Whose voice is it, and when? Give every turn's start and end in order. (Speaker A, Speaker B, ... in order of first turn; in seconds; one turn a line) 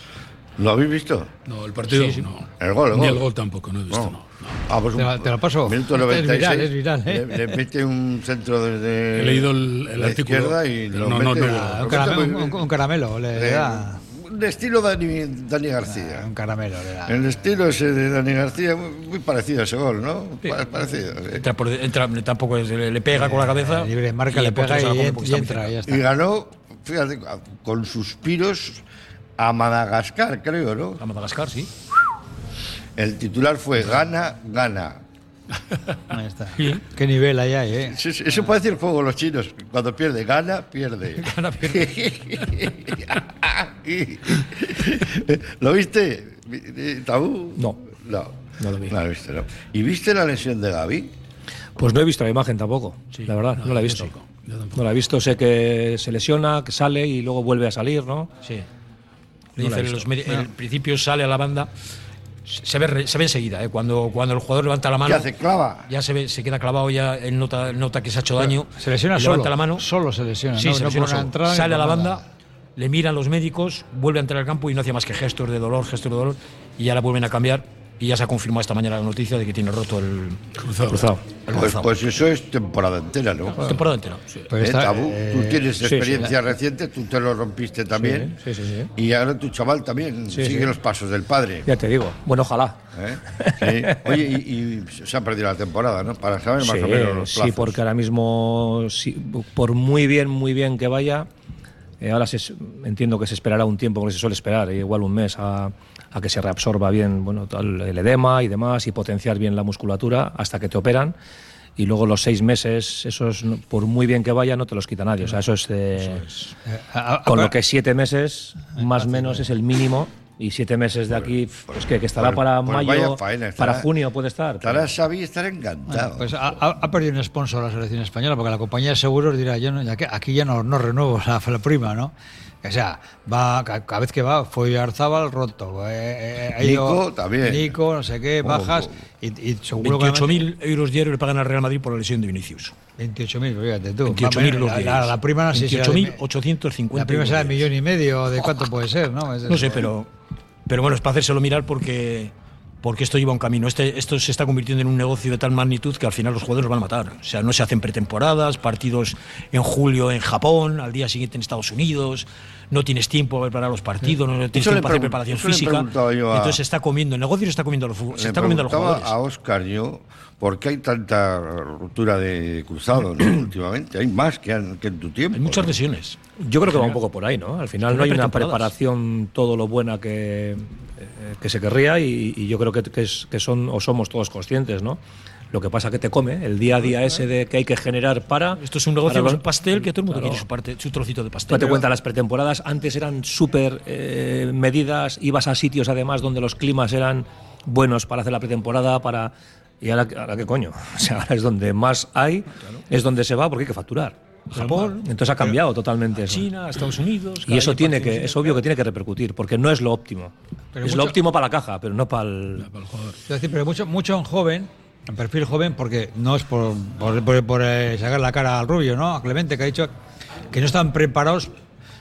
Speaker A: 0.6-1.3
Speaker B: 1.4-4.5
Speaker C: 1.9-2.3
Speaker A: 2.6-3.2
Speaker A: 3.9-12.6
Speaker D: 5.0-7.5
Speaker B: 9.2-11.7
Speaker D: 11.4-14.0
Speaker A: 13.3-16.3
Speaker D: 15.9-17.2
Speaker A: 17.1-21.4
Speaker C: 21.4-25.8
Speaker D: 23.1-26.0
Speaker A: 25.8-28.8
Speaker A: 29.4-31.0
Speaker C: 31.0-31.7
Speaker A: 33.0-35.0
Speaker D: 36.1-38.0
Speaker C: 36.6-36.8
Speaker A: 37.9-51.1
Speaker C: 41.2-41.9
Speaker E: 48.6-49.0
Speaker E: 51.8-54.1
Speaker B: 53.6-54.8
Speaker E: 54.7-58.3
Speaker C: 59.6-61.7
Speaker E: 59.6-60.1
Speaker C: 62.5-65.3
Speaker A: 65.0-65.9
Speaker C: 65.9-69.8
Speaker D: 68.4-72.2
Speaker C: 70.5-72.2
Speaker C: 72.8-80.4
Speaker B: 80.5-81.1
Speaker E: 80.9-81.2
Speaker C: 81.3-81.9
Speaker A: 81.5-83.8
Speaker C: 83.6-84.2
Speaker D: 84.5-86.3
Speaker A: 84.6-88.3
Speaker E: 85.8-86.2
Speaker E: 87.9-88.9
Speaker A: 88.9-91.7
Speaker E: 90.3-90.7
Speaker E: 91.7-94.2
Speaker A: 92.9-97.8
Speaker E: 96.6-101.3
Speaker E: 102.0-111.2
Speaker E: 111.8-116.3
Speaker D: 116.7-117.6
Speaker E: 117.2-124.9
Speaker D: 118.9-119.5
Speaker A: 122.1-123.9
Speaker A: 124.6-126.3
Speaker D: 125.9-140.4
Speaker A: 136.6-137.8
Speaker A: 138.4-139.0
Speaker C: 139.8-142.7
Speaker D: 143.0-146.2
Speaker C: 144.0-147.7
Speaker D: 146.9-149.9
Speaker C: 149.5-150.1
Speaker C: 150.7-169.1
Speaker A: 164.5-166.6
Speaker A: 168.1-175.8
Speaker C: 175.3-176.2
Speaker E: 176.4-185.0
Speaker C: 177.9-178.7
Speaker E: 185.5-190.4
Speaker C: 188.6-191.8
Speaker E: 191.5-206.5
Speaker D: 204.6-204.9
Speaker C: 206.1-208.6
Speaker E: 207.4-212.7
Speaker D: 210.7-211.2
Speaker B: 212.6-213.2
Speaker D: 213.3-219.9
Speaker D: 220.5-221.5